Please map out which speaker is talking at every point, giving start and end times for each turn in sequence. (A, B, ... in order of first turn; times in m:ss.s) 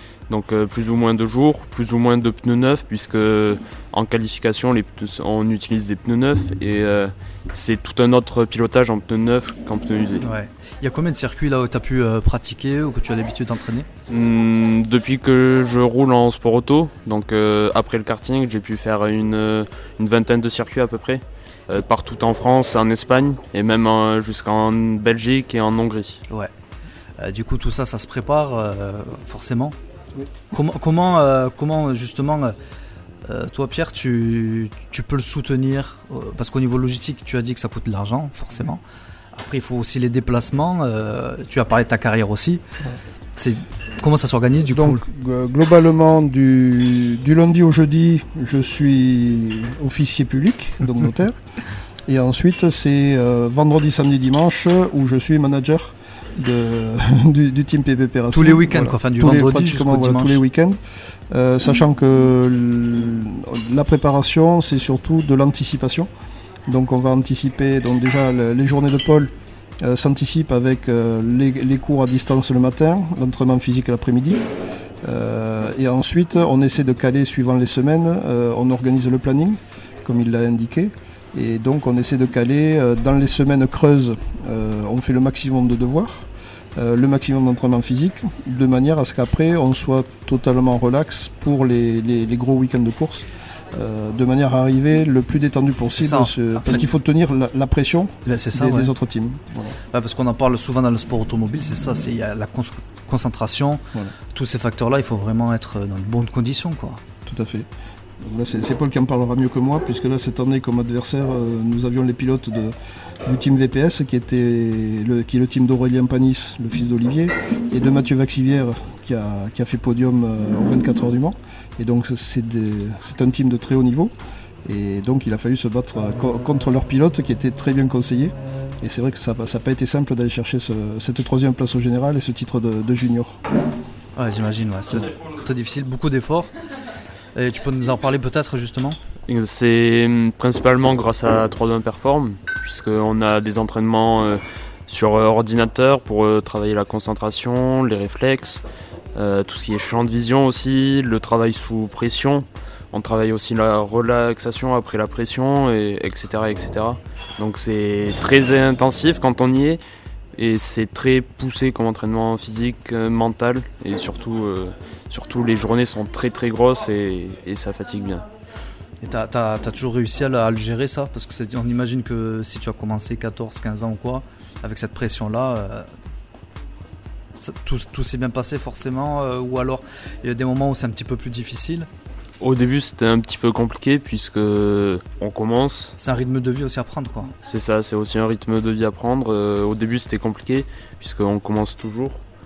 0:00.3-0:10.3 A
0:10.2-0:13.9 B
0:14.1-0:26.2 A
0:27.2-0:29.8 B
0:30.5-0:32.6 B
0:33.2-0:38.8 B
0:39.3-0:42.6 B
0:43.4-0:45.0 B
0:44.7-0:51.4 C
0:52.1-1:00.8 C
0:58.3-1:00.4 B
1:01.3-1:06.1 C
1:06.7-1:14.4 C
1:15.0-1:39.8 C
1:36.0-1:36.8 B
1:38.2-1:38.9 B
1:39.9-1:47.0 B
1:47.2-1:47.7 C
1:48.2-1:52.7 C
1:53.2-2:04.1 C
2:04.6-2:13.4 C
2:14.2-2:16.5 B
2:17.3-2:19.0 B
2:19.3-2:28.6 A
2:29.1-2:39.8 A
2:40.4-2:48.2 A
2:49.0-2:55.9 B
2:57.4-3:01.9 B
3:02.4-3:05.9 A
3:06.0-3:07.3 B
3:07.4-3:12.2 A